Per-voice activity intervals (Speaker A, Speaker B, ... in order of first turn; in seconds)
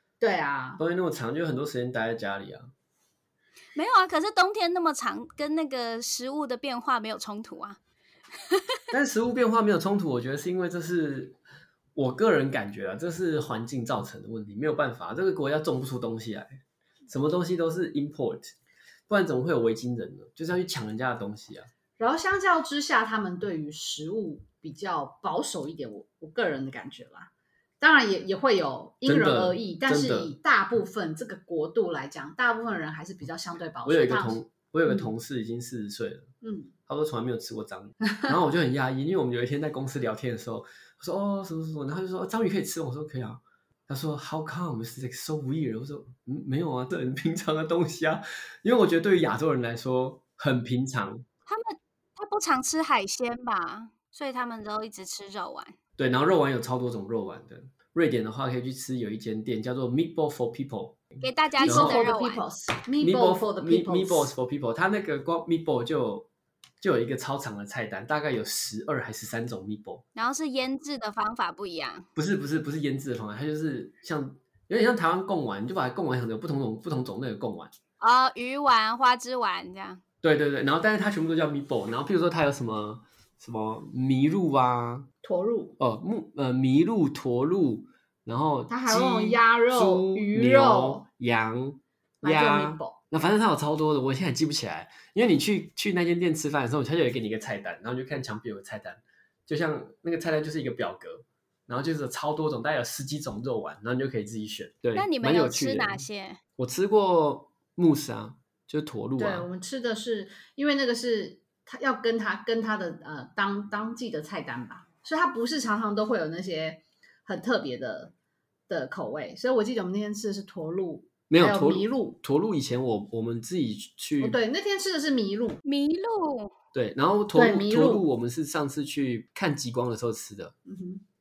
Speaker A: 0.2-0.8, 22.0-35.1, 36.4-36.7, 61.6-64.3, 85.2-85.8, 88.7-91.0, 92.2-93.0, 109.2-118.1, 118.7-122.2, 124.2-125.6, 127.3-128.1, 130.7-131.0
Speaker B: 0.8-2.7, 8.9-11.4, 11.9-18.5, 19.1-21.7, 29.1-30.3, 33.9-36.3, 36.9-51.3, 56.0-61.0, 61.6-62.0, 63.0-66.3, 66.8-70.0, 72.2-77.7, 80.2-85.1, 85.8-106.0, 106.6-109.5, 121.3-124.4, 126.7-130.6
Speaker C: 3.8-7.8, 8.5-8.8, 51.5-55.8, 61.2-62.4, 70.2-72.1, 78.0-80.0, 105.0-106.4, 125.6-126.5